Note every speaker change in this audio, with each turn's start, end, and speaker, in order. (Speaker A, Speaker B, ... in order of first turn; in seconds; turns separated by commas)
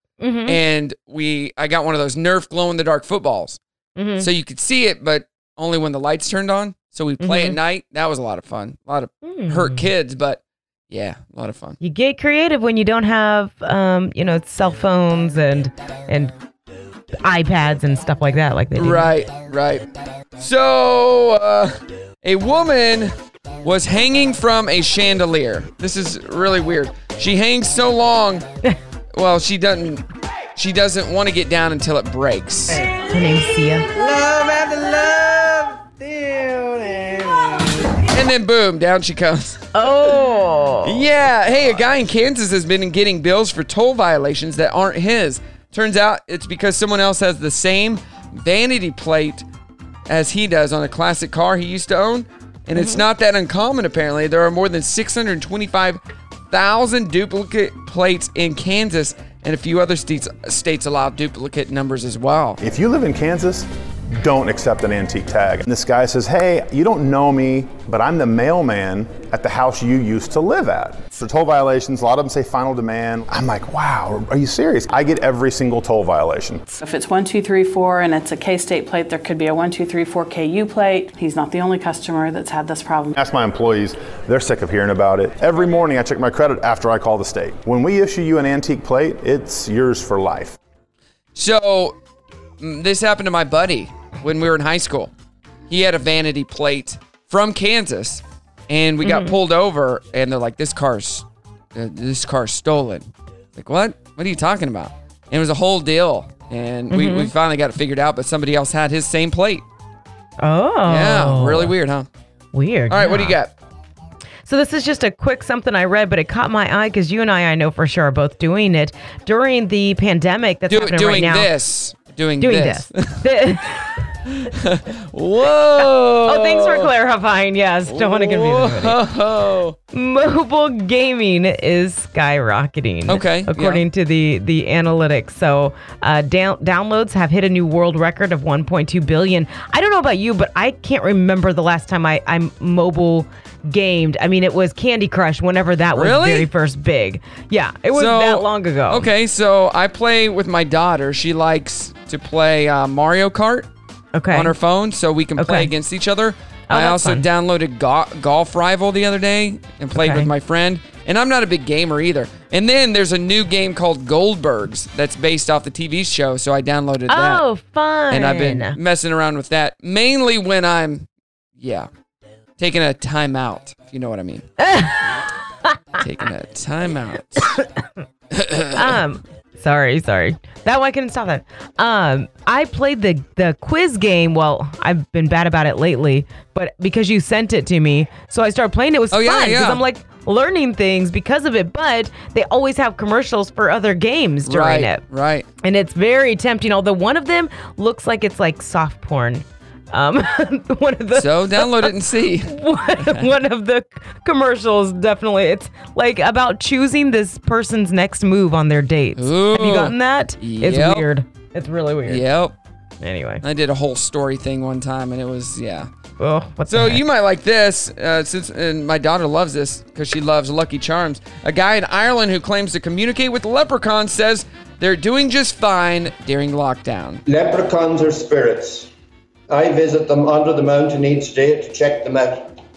Speaker A: 0.2-0.6, Speaker B: 0.5-3.6, Speaker A: 4.0-4.3, Speaker B: 4.2-11.8, Speaker A: 7.2-7.6, Speaker A: 9.2-9.8, Speaker A: 11.8-16.3, Speaker A: 17.2-19.1, Speaker B: 18.8-19.9, Speaker B: 20.4-28.4, Speaker B: 29.1-30.0, Speaker B: 30.6-32.8, Speaker A: 32.7-33.9, Speaker B: 33.9-36.2, Speaker B: 38.1-40.1, Speaker A: 39.7-41.0, Speaker B: 40.8-49.4, Speaker B: 50.1-56.0, Speaker A: 52.8-53.0, Speaker B: 56.5-62.6, Speaker C: 62.6-76.7, Speaker D: 76.8-83.1, Speaker C: 83.1-90.6, Speaker B: 91.3-92.0, Speaker B: 92.6-95.1, Speaker B: 95.7-109.6, Speaker A: 99.0-99.4, Speaker A: 106.9-107.3, Speaker A: 110.4-111.7, Speaker B: 110.8-112.1, Speaker A: 112.5-113.3, Speaker B: 112.9-113.5, Speaker A: 114.5-121.5, Speaker B: 120.7-123.2, Speaker A: 122.4-123.9, Speaker B: 124.3-126.9, Speaker A: 125.8-128.9, Speaker B: 127.9-129.8, Speaker A: 129.9-149.1, Speaker B: 133.1-133.8, Speaker B: 145.9-146.5, Speaker B: 147.9-153.7, Speaker A: 154.1-154.5, Speaker B: 154.3-167.4, Speaker A: 155.4-155.7, Speaker A: 156.7-157.2, Speaker A: 160.0-160.3, Speaker A: 167.1-168.8, Speaker B: 168.1-171.1, Speaker B: 171.6-171.9, Speaker B: 172.6-174.4, Speaker A: 174.6-175.2, Speaker B: 176.0-177.5, Speaker A: 177.4-177.8, Speaker B: 178.3-179.0, Speaker A: 178.7-195.0, Speaker B: 189.1-189.8, Speaker B: 194.4-195.5, Speaker A: 195.6-201.9, Speaker B: 201.1-203.3, Speaker A: 202.5-212.2, Speaker B: 209.2-211.1, Speaker B: 212.1-212.5, Speaker A: 213.0-213.4, Speaker B: 213.4-215.9, Speaker A: 216.2-217.0, Speaker B: 216.7-227.2, Speaker E: 227.2-228.9, Speaker E: 229.5-232.6